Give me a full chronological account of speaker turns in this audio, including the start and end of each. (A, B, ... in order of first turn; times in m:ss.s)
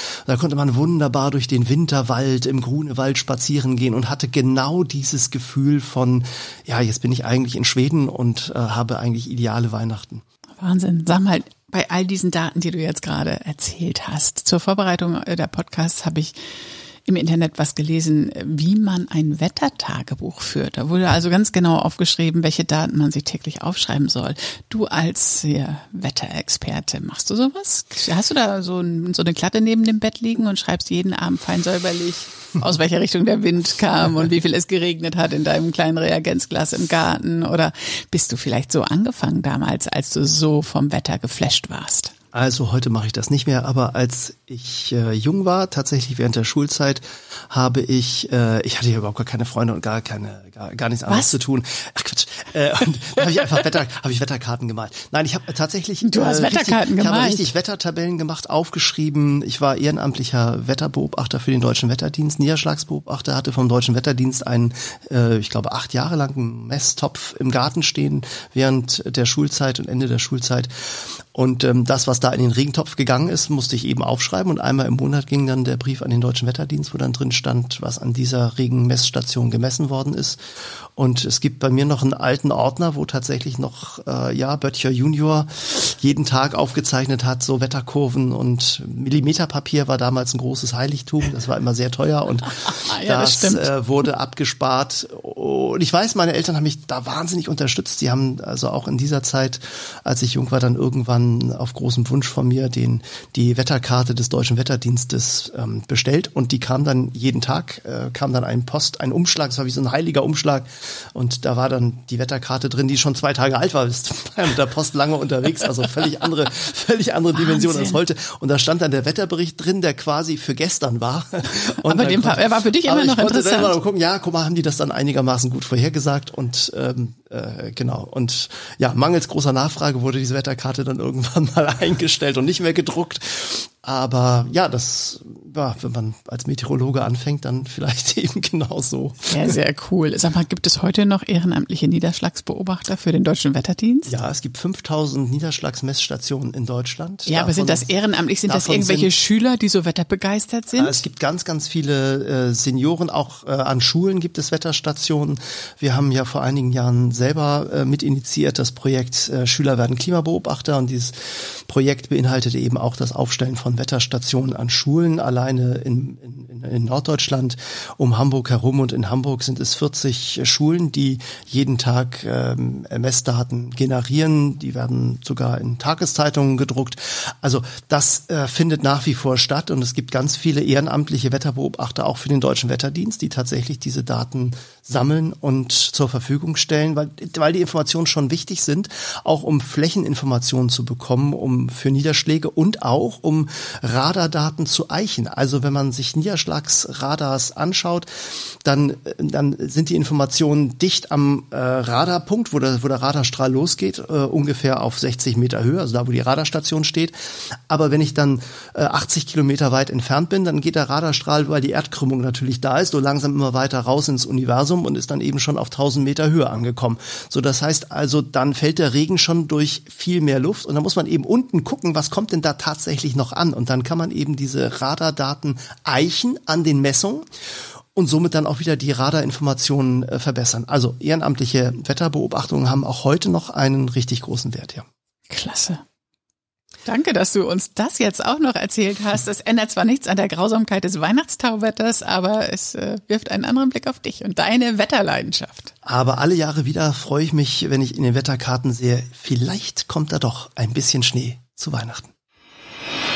0:00.2-0:10.2 A
0:10.6-0:16.3 B
0:17.0-0:42.1 B
0:42.3-1:10.7 A
0:56.0-0:57.5 B
1:11.3-1:20.4 A
1:21.0-2:19.6 A
1:32.5-1:33.7 B
1:57.4-1:58.0 B
2:01.8-2:03.7 B
2:19.3-2:24.1 B
2:24.1-2:27.9 A
2:27.2-2:31.0 B
2:28.5-2:29.1 A
2:30.8-3:18.1 A
3:18.6-3:27.1 A
3:27.7-3:47.2 A
3:47.9-3:54.8 A
3:55.3-3:55.8 B
3:56.8-4:05.7 B
4:05.8-4:12.1 A